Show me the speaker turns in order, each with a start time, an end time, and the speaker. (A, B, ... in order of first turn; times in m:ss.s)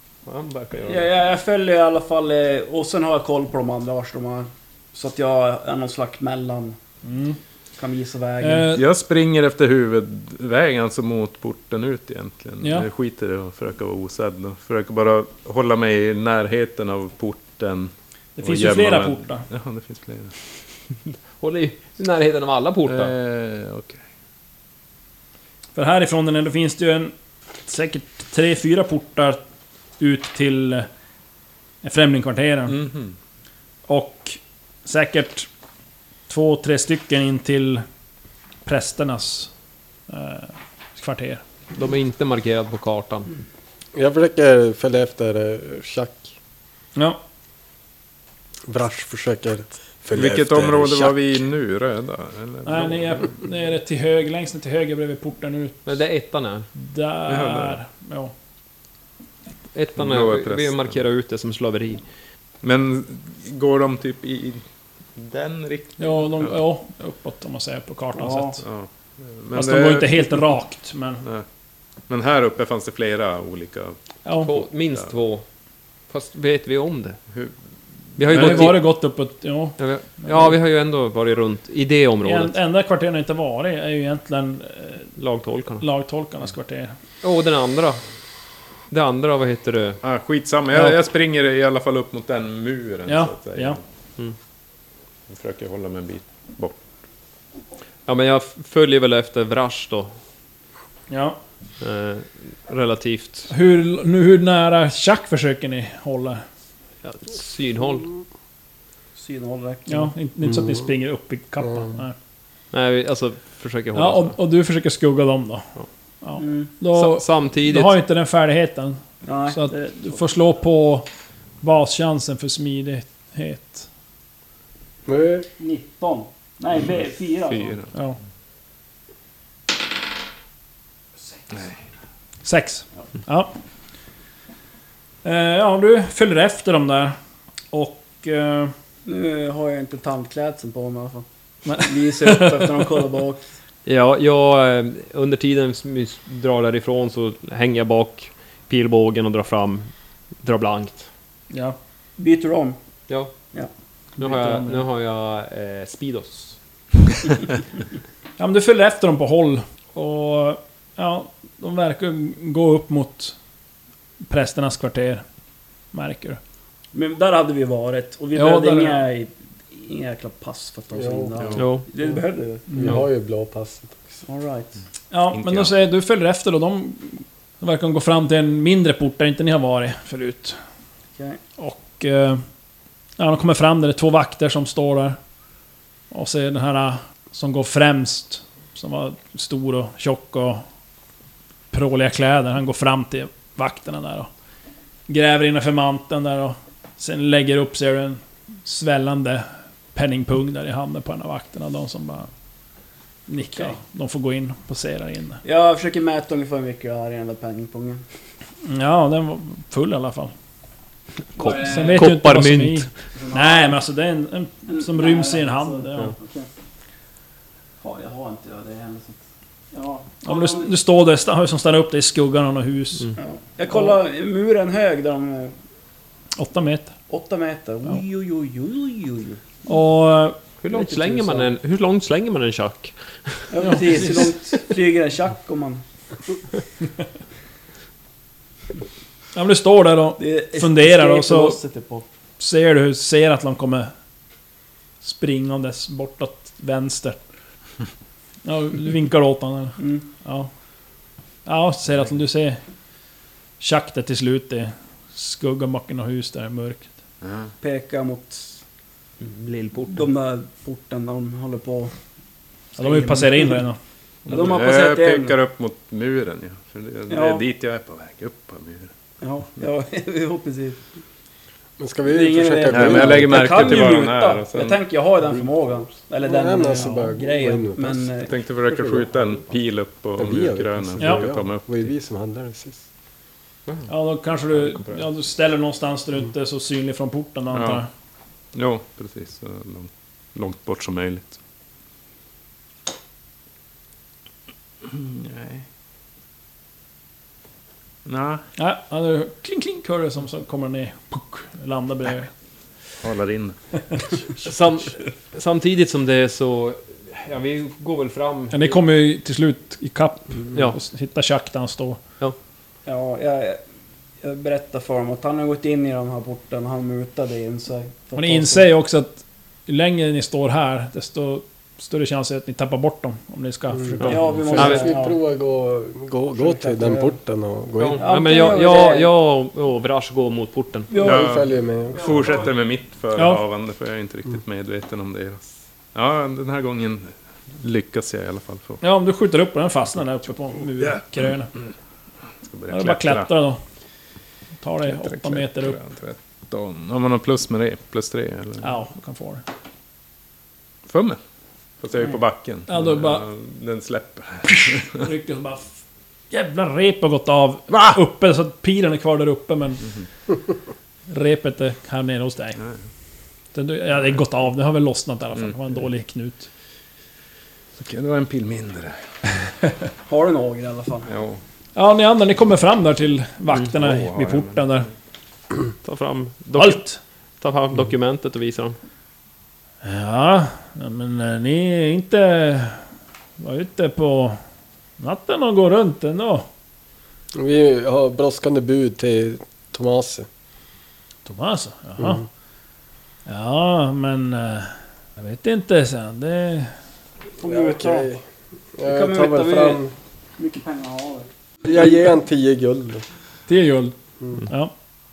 0:00.2-0:01.1 A
0:00.8-0:06.8 B
0:07.0-0:07.4 C
0:07.8-0:08.7 B
0:08.4-0:08.8 C
0:08.7-0:20.3 D
0:12.6-0:12.9 C
0:18.4-0:19.4 C
0:21.4-0:23.1 A
0:22.9-0:24.0 D
0:25.8-0:27.1 C
0:27.6-0:29.4 C
0:30.0-0:30.9 C
0:31.8-0:32.8 C
0:32.7-0:33.1 D
0:33.9-0:35.5 C
0:36.3-0:37.8 C
0:38.6-0:39.5 C
0:40.1-0:41.4 C
0:41.8-0:43.3 A
0:43.9-0:46.3 E
0:48.7-0:51.3 E
0:50.1-0:53.3 D
0:52.6-0:56.0 C
0:55.8-0:56.7 A
0:56.8-0:58.3 C
0:57.3-0:57.8 D
0:59.7-1:02.0 A
1:00.0-1:01.0 D
1:02.6-1:04.6 D
1:05.2-1:06.5 D
1:06.0-1:08.6 C
1:08.2-1:08.6 B
1:08.6-1:10.4 D
1:09.5-1:11.2 C
1:12.1-1:15.1 D
1:14.2-1:14.5 C
1:14.4-1:15.4 A
1:16.1-1:17.2 A
1:18.2-1:18.8 D
1:18.2-1:18.8 A
1:18.3-1:20.5 C
1:19.8-1:22.5 A
1:22.2-1:25.1 C
1:25.2-1:25.8 A
1:25.8-1:26.9 C
1:27.2-1:28.0 A
1:28.9-1:30.0 A
1:30.0-1:33.8 D
1:33.1-1:33.8 C
1:35.3-1:36.8 D
1:38.0-1:40.1 A
1:41.1-1:41.4 C
1:41.8-1:43.5 A
1:43.5-1:46.4 C
1:47.0-1:48.1 A
1:49.2-1:50.1 B
1:49.9-1:52.1 C
1:50.4-1:50.8 E
1:52.7-1:54.3 A
1:53.9-1:55.7 C
1:56.2-2:01.1 C
1:56.4-1:56.7 B
1:56.9-1:58.0 A
1:59.2-1:59.7 B
2:01.6-2:03.9 C
2:05.0-2:05.5 E
2:05.6-2:07.8 B
2:06.8-2:07.9 D
2:11.5-2:11.8 D
2:12.4-2:13.5 C
2:15.2-2:17.2 C
2:17.7-2:18.7 C
2:19.0-2:23.4 B
2:21.6-2:22.8 C
2:23.8-2:29.9 A
2:30.4-2:31.1 A
2:31.5-2:31.8 C
2:32.2-2:32.8 B
2:34.2-2:36.6 A
2:34.2-2:34.6 B
2:34.3-2:34.7 C
2:38.4-2:43.3 C
2:44.3-2:45.2 C
2:45.9-2:46.4 C
2:46.9-2:52.9 B
2:48.3-2:49.0 C
2:50.9-2:51.4 E
2:51.4-2:51.8 D
2:51.6-2:51.8 A
2:52.7-2:54.2 E
2:54.2-2:54.7 B
2:55.1-3:00.6 C
2:55.3-2:55.7 D
3:01.6-3:02.4 C
3:03.2-3:05.2 C
3:06.1-3:10.6 C
3:11.7-3:14.3 C
3:15.1-3:22.3 C
3:23.3-3:25.4 C
3:25.4-3:28.0 B
3:28.6-3:30.3 C
3:31.4-3:32.9 A
3:31.4-3:32.0 B
3:31.4-3:36.1 C
3:33.1-3:33.7 B
3:34.7-3:36.5 B
3:37.8-3:39.2 B
3:39.7-3:40.7 B
3:40.2-3:43.1 C
3:43.2-3:45.5 B
3:46.4-3:46.9 C
3:47.1-3:49.4 B
3:49.7-3:50.4 C
3:50.6-3:54.2 A
3:50.7-3:51.5 B
3:53.5-3:55.8 B
3:53.6-3:54.2 C
3:59.3-4:01.6 C
4:00.2-4:02.0 B
4:02.4-4:03.9 C
4:05.0-4:07.2 C
4:08.4-4:10.5 C
4:09.8-4:10.0 B
4:11.4-4:12.6 C
4:13.6-4:16.9 C
4:17.2-4:17.5 D
4:17.6-4:18.6 B
4:19.2-4:20.0 A
4:19.9-4:21.9 B
4:22.8-4:23.8 C
4:22.8-4:23.5 B
4:24.2-4:28.9 D
4:24.3-4:25.4 B
4:27.1-4:27.4 B
4:29.2-4:30.8 B
4:31.8-4:33.6 E
4:32.1-4:38.3 B
4:32.7-4:34.8 D
4:36.2-4:38.1 E
4:38.2-4:41.9 D
4:38.7-4:39.0 E
4:40.2-4:42.8 E
4:41.0-4:41.2 C
4:43.9-4:47.9 C
4:47.5-4:47.8 D
4:48.5-4:51.4 D
4:54.8-4:55.6 D
4:58.0-4:58.4 D
4:58.6-5:02.3 C
5:03.0-5:03.6 D
5:04.4-5:08.8 A
5:08.5-5:12.0 C
5:12.8-5:13.6 B
5:14.2-5:18.6 B
5:18.2-5:24.2 C
5:23.7-5:28.1 E
5:24.0-5:25.2 B
5:24.5-5:24.9 A
5:26.4-5:27.1 B
5:27.8-5:30.9 A
5:28.0-5:29.1 B
5:30.9-5:31.2 B
5:31.0-5:32.2 E
5:31.0-5:38.8 D
5:31.9-5:32.5 B
5:33.2-5:33.4 C
5:38.8-5:41.5 C
5:42.4-5:43.3 D
5:42.7-5:43.6 C
5:44.6-5:45.8 C
5:44.8-5:48.8 D
5:48.6-5:49.4 C
5:50.9-5:51.2 D
5:51.8-5:55.0 D
5:52.7-5:53.2 C
5:54.9-5:55.8 C
5:56.3-5:59.9 C
5:57.7-5:58.0 D
6:01.1-6:02.6 C
6:03.5-6:06.5 C
6:07.8-6:09.0 D
6:10.0-6:11.1 B
6:11.1-6:11.4 D
6:11.8-6:14.9 C
6:13.6-6:14.8 D
6:15.8-6:16.8 A
6:16.5-6:17.0 C
6:17.4-6:18.8 A
6:19.8-6:22.8 C
6:23.4-6:24.4 C
6:25.0-6:26.4 C
6:27.3-6:30.3 E
6:31.2-6:32.2 C
6:33.2-6:36.7 C
6:37.4-6:38.1 B
6:37.4-6:38.2 E
6:38.8-6:39.9 E
6:38.8-6:39.8 B
6:40.4-6:41.8 B
6:41.6-6:43.0 E
6:43.5-6:43.9 C
6:44.4-6:44.7 C